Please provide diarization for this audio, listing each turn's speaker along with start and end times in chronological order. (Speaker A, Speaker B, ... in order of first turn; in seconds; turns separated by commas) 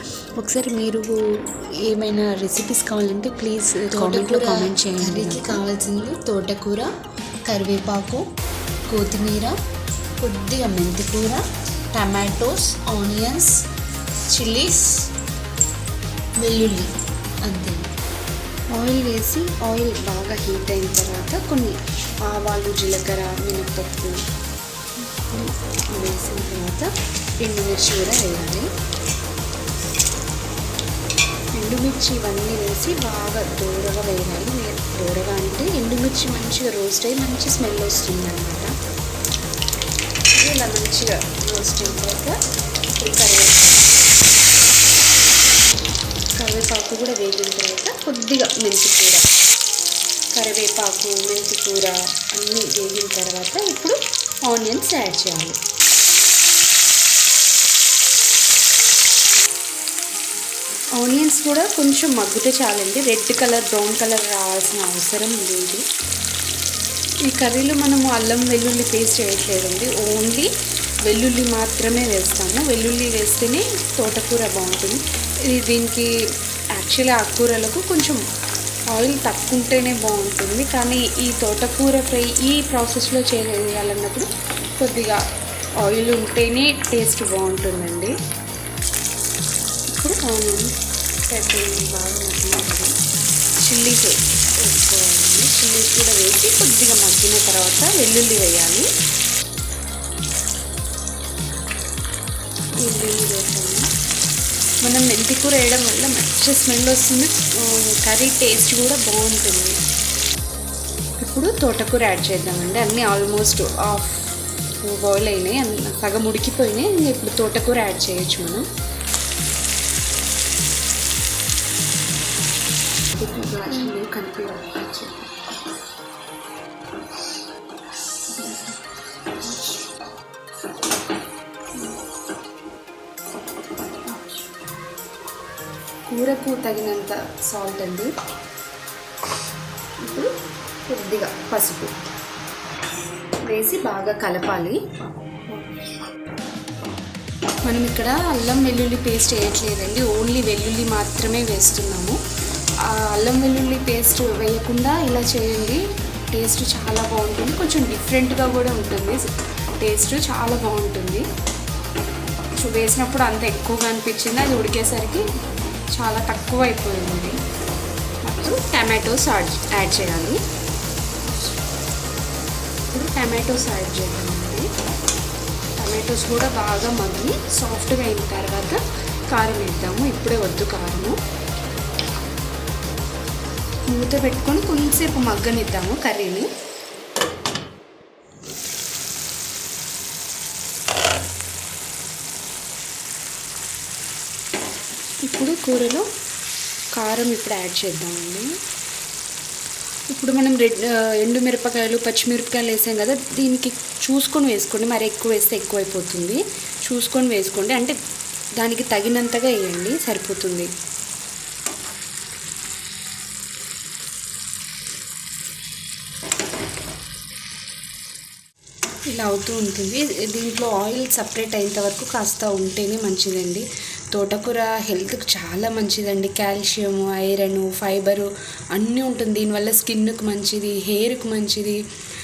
Speaker A: 0.4-5.6, Speaker B: 3.8-6.8, Speaker B: 7.5-8.2, Speaker A: 8.9-9.5, Speaker B: 9.0-9.5, Speaker A: 10.2-11.4, Speaker B: 10.3-11.2, Speaker A: 11.9-13.6, Speaker A: 14.3-15.1, Speaker A: 16.5-16.9, Speaker B: 17.5-17.8, Speaker A: 18.7-24.2, Speaker A: 25.1-28.7, Speaker A: 31.5-38.8, Speaker A: 40.3-42.4, Speaker A: 43.0-43.9, Speaker A: 46.3-49.3, Speaker A: 50.3-55.6, Speaker A: 61.0-65.8, Speaker A: 67.2-70.5, Speaker A: 71.0-76.1, Speaker A: 76.7-78.2, Speaker A: 78.9-85.2, Speaker A: 85.8-88.2, Speaker A: 89.9-90.7, Speaker A: 91.3-93.0, Speaker A: 93.6-98.9, Speaker A: 102.8-103.9, Speaker A: 104.8-109.8, Speaker A: 111.2-114.2, Speaker A: 114.8-118.7, Speaker A: 123.2-125.3, Speaker A: 136.1-138.1, Speaker A: 140.0-140.3, Speaker A: 140.9-141.9, Speaker A: 143.5-144.8, Speaker A: 147.7-152.2, Speaker A: 152.8-159.3, Speaker A: 159.8-161.3, Speaker A: 162.6-165.3, Speaker A: 165.9-167.4, Speaker A: 168.3-170.4, Speaker A: 172.9-174.7, Speaker A: 175.8-181.2, Speaker A: 183.9-186.5, Speaker A: 195.2-196.1, Speaker A: 196.9-198.5, Speaker A: 200.1-208.0, Speaker A: 208.6-210.7, Speaker A: 219.1-231.8